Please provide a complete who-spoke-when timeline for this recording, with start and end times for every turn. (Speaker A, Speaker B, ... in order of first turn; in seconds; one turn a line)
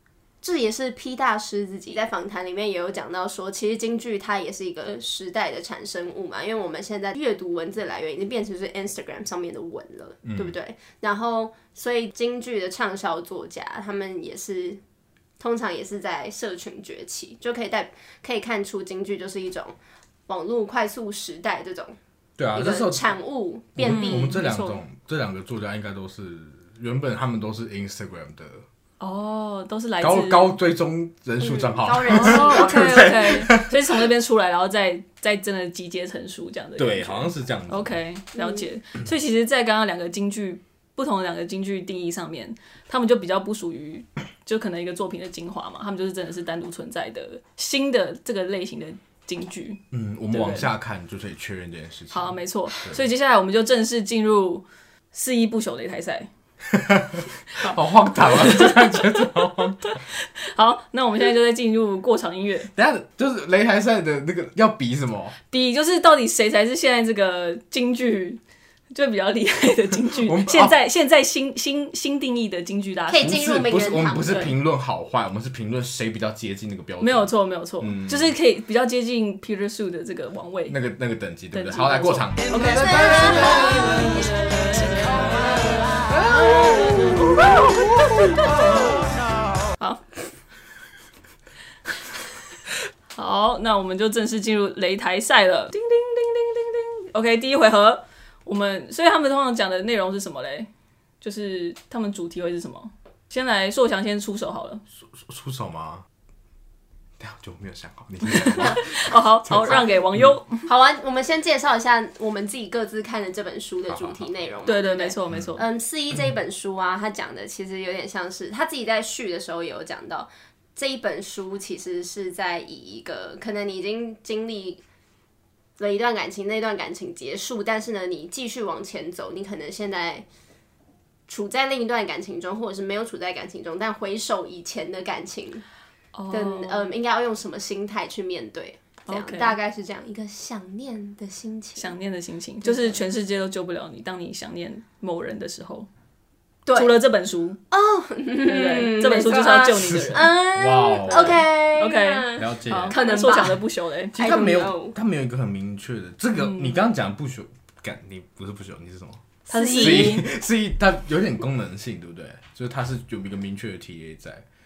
Speaker A: 0.4-14.8
Speaker B: 10.2-10.6
Speaker A: 15.4-19.8
Speaker A: 20.3-22.0
Speaker B: 22.4-23.0
Speaker A: 22.5-24.4
Speaker B: 23.8-28.6
Speaker C: 23.8-24.8
Speaker C: 29.0-30.6
Speaker B: 30.0-34.0
Speaker A: 31.4-33.4
Speaker C: 32.1-50.7
Speaker B: 36.8-38.0
Speaker A: 38.4-38.7
Speaker B: 49.9-53.0
Speaker C: 52.1-56.3
Speaker B: 56.7-60.0
Speaker C: 57.6-59.3
Speaker C: 59.8-62.7
Speaker B: 62.8-65.3
Speaker C: 65.5-68.4
Speaker C: 68.9-73.4
Speaker B: 70.1-70.7
Speaker A: 73.1-74.6
Speaker B: 73.2-78.3
Speaker C: 74.3-74.5
Speaker C: 77.0-80.8
Speaker B: 80.7-89.3
Speaker C: 81.5-87.4
Speaker A: 82.5-87.4
Speaker C: 89.8-90.0
Speaker C: 93.2-100.7
Speaker C: 101.2-104.8
Speaker B: 105.0-106.0
Speaker B: 107.2-110.3
Speaker C: 108.3-110.7
Speaker A: 110.7-124.8
Speaker B: 113.9-114.2
Speaker C: 114.7-115.7
Speaker A: 125.8-130.3
Speaker A: 131.3-135.7
Speaker C: 136.2-136.9
Speaker A: 136.3-141.9
Speaker C: 139.1-139.6
Speaker C: 141.8-145.9
Speaker A: 142.6-143.0
Speaker A: 146.7-146.9
Speaker C: 146.8-147.6
Speaker A: 147.7-155.0
Speaker C: 148.4-150.3
Speaker B: 149.8-151.5
Speaker C: 151.1-154.2
Speaker B: 152.4-153.0
Speaker B: 154.2-159.2
Speaker C: 156.4-156.8
Speaker C: 159.5-160.2
Speaker A: 159.5-160.2
Speaker B: 159.8-164.4